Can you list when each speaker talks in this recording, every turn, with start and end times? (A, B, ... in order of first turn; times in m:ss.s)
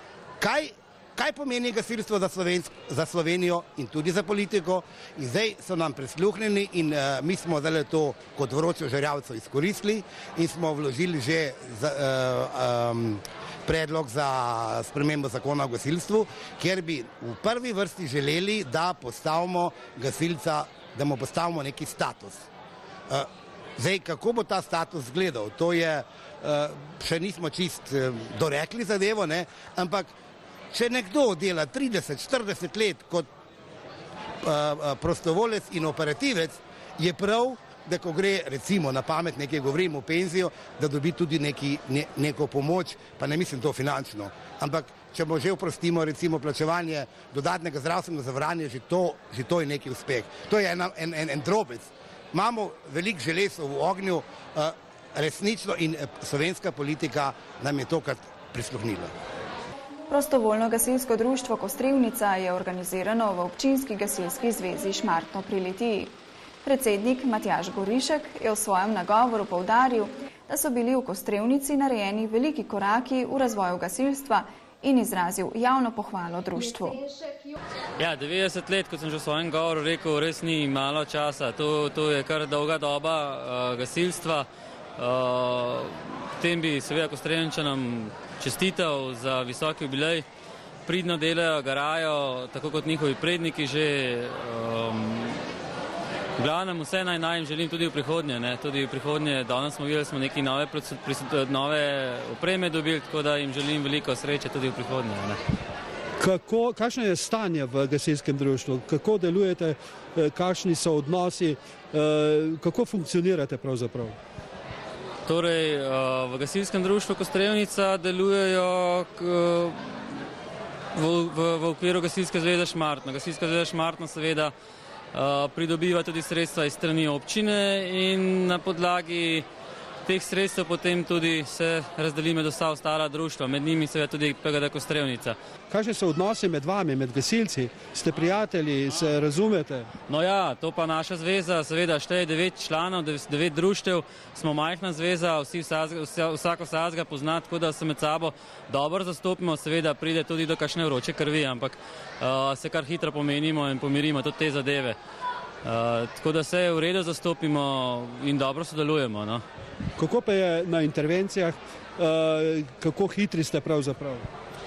0:00.4-0:22.4 A
0:23.1-0:30.1 A
0:30.7-0:33.3 A
0:34.4-0:59.1 A
1:00.1-1:17.0 B
1:18.0-1:24.5 C
1:25.0-1:30.2 C
1:30.9-1:35.4 C
1:36.4-1:45.4 C
1:46.2-1:54.2 D
1:55.2-2:00.1 C
2:01.0-2:04.5 C
2:05.1-2:09.5 C
2:10.1-2:15.4 C
2:15.7-2:19.9 D
2:20.1-2:35.0 C
2:35.6-2:39.4 C
2:40.0-2:44.3 D